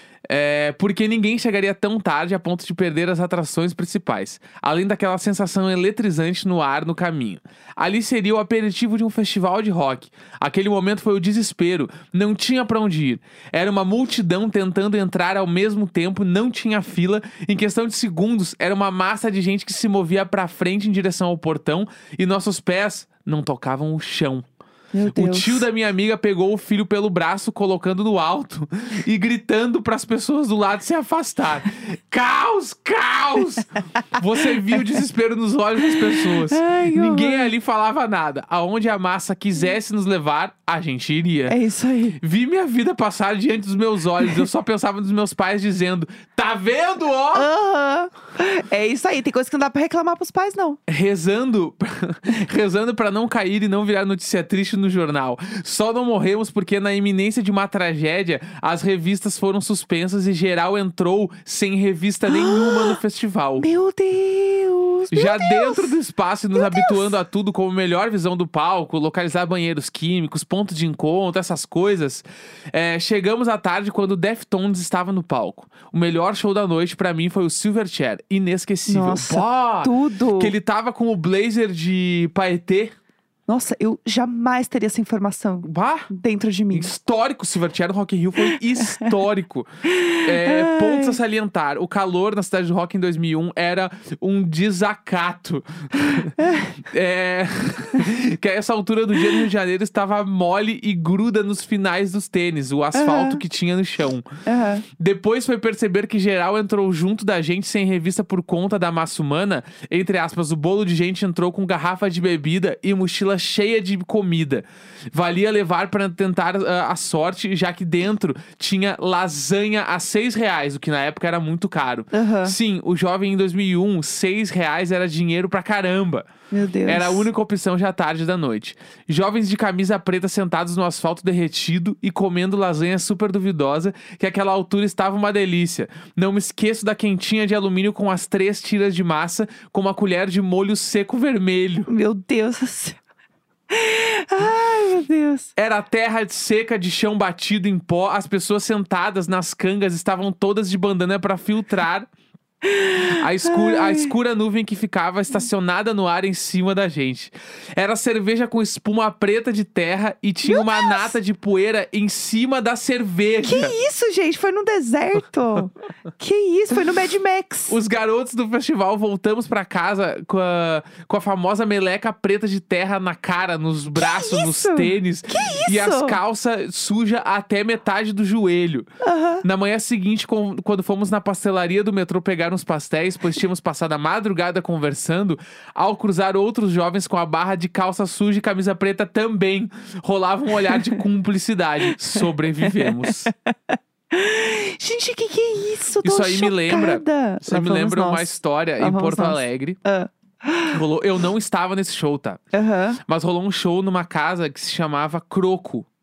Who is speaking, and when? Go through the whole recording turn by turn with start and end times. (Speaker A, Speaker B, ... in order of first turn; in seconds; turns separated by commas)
Speaker A: 0.3-24.5, Speaker B: 24.9-25.7, Speaker A: 25.1-41.6, Speaker B: 35.9-37.5, Speaker B: 41.5-42.2, Speaker A: 42.2-47.5, Speaker B: 47.3-50.8, Speaker A: 50.9-63.7, Speaker B: 62.3-63.0, Speaker B: 63.6-65.9, Speaker A: 65.1-82.9, Speaker B: 66.5-67.1, Speaker B: 78.9-80.5, Speaker B: 83.5-86.9, Speaker A: 85.6-86.1, Speaker A: 86.7-89.7, Speaker B: 88.8-89.1, Speaker B: 89.9-91.2, Speaker A: 90.2-104.2, Speaker B: 96.0-96.7, Speaker B: 102.9-103.4, Speaker B: 104.5-104.9, Speaker A: 104.9-126.3, Speaker B: 122.1-122.6, Speaker B: 126.5-127.3, Speaker A: 126.9-141.9, Speaker B: 141.9-143.0, Speaker B: 143.7-145.5, Speaker A: 145.6-152.1, Speaker B: 152.6-154.1, Speaker A: 153.1-163.7, Speaker B: 160.4-161.2, Speaker B: 163.4-167.8, Speaker A: 167.7-178.9, Speaker B: 174.0-176.2, Speaker B: 179.0-179.4, Speaker A: 179.4-193.3, Speaker B: 192.6-200.8, Speaker A: 196.0-199.8, Speaker A: 200.7-202.4, Speaker B: 202.5-203.0, Speaker A: 203.1-205.9